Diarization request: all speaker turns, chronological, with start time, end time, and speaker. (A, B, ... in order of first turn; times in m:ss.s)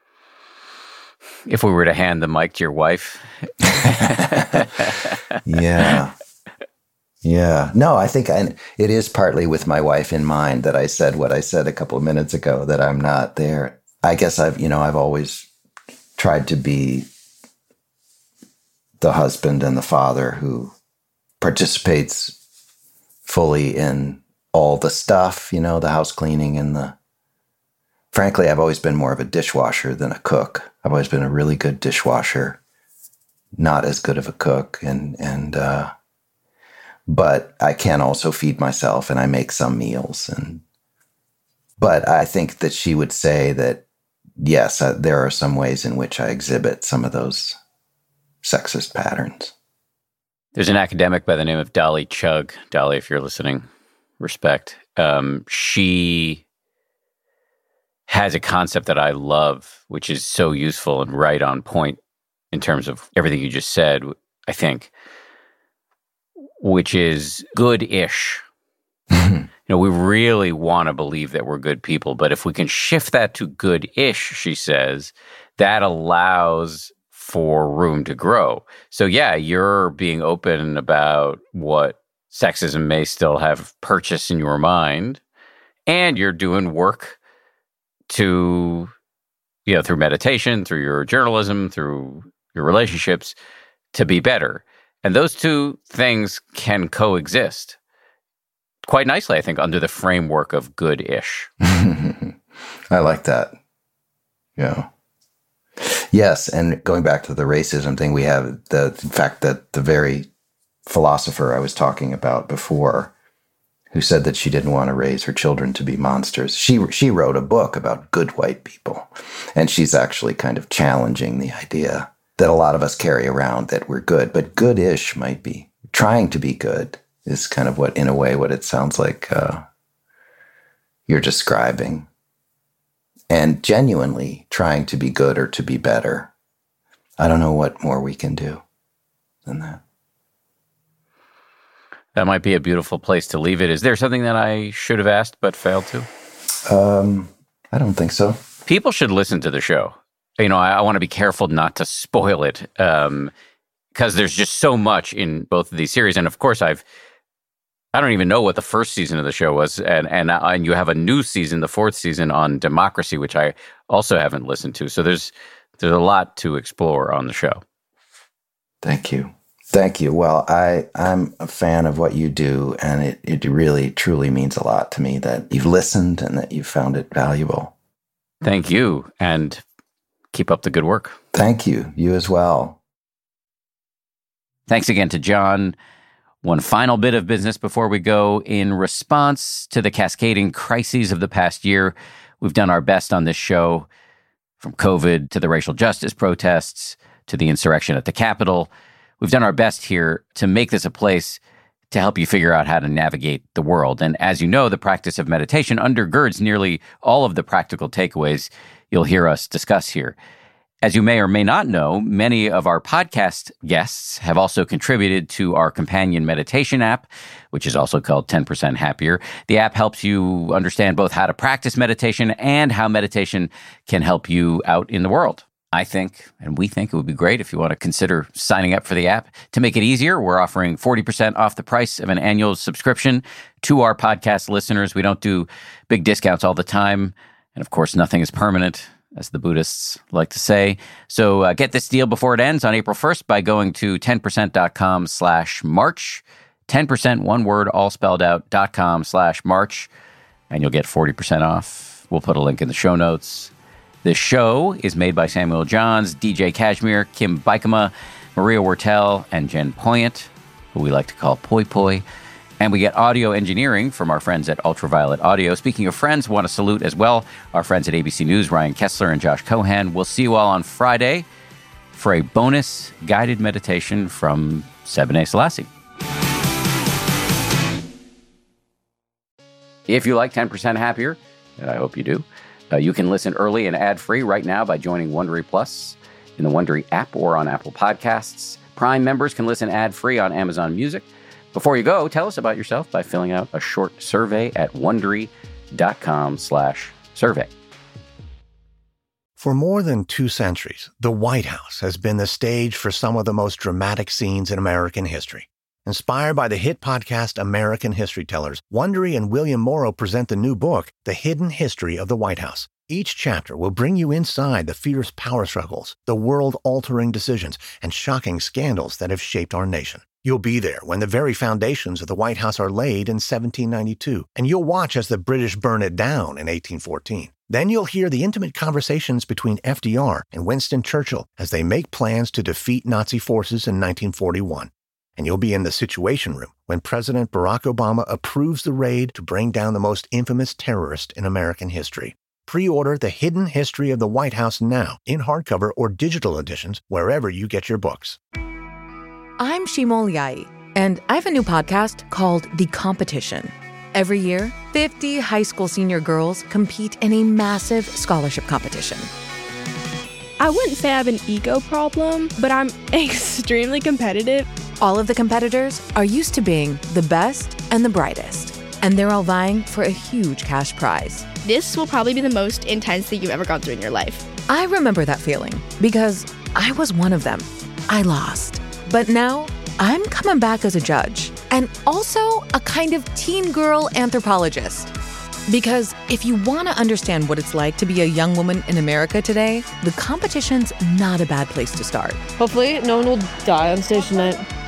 0:01.4-0:05.0 A
0:03.8-0:04.6 B
0:05.4-0:06.1 B
0:07.2-0:15.5 B
0:16.2-0:17.1 B
0:19.0-0:20.7 B
0:21.4-0:22.4 B
0:23.3-0:27.0 B
0:28.1-0:32.6 B
0:33.6-0:35.9 B
0:37.1-0:40.6 B
0:41.8-0:43.8 B
0:44.4-0:47.6 B
0:48.4-0:49.5 B
0:50.6-0:53.6 A
0:54.2-0:56.4 A
0:58.1-1:02.0 A
1:02.5-1:04.9 A
1:06.6-1:08.4 A
1:09.7-1:25.2 A
1:25.9-1:27.2 A
1:28.1-1:28.9 A
1:29.6-1:33.3 A
1:33.9-1:37.8 A
1:38.8-1:41.5 A
1:41.6-1:42.4 B
1:42.9-1:43.6 B
1:44.6-1:44.9 B
1:45.8-1:50.3 B
1:50.9-1:53.1 B
1:53.9-2:09.6 B
2:11.1-2:12.1 B
2:13.3-2:16.3 B
2:17.2-2:18.6 B
2:19.4-2:19.8 B
2:22.1-2:26.1 A
2:26.6-2:28.4 B
2:28.6-2:33.3 A
2:33.9-2:36.8 A
2:37.9-2:47.6 A
2:48.8-2:57.7 B
2:58.4-2:59.6 A
3:00.3-3:01.2 A
3:01.3-3:02.8 B
3:04.7-3:05.8 A
3:06.4-3:13.9 A
3:14.6-3:21.4 A
3:21.9-3:30.2 A
3:30.8-4:09.9 A
4:10.5-4:13.5 A
4:14.0-4:22.0 A
4:22.6-4:31.3 A
4:31.9-4:35.7 A
4:39.9-4:57.5 A
4:59.4-5:48.2 C
5:49.4-5:59.1 D
6:00.4-6:04.5 E
6:04.8-6:11.3 D
6:11.4-6:14.2 E
6:14.5-6:24.9 D
6:25.5-6:32.2 D
6:32.4-6:34.4 F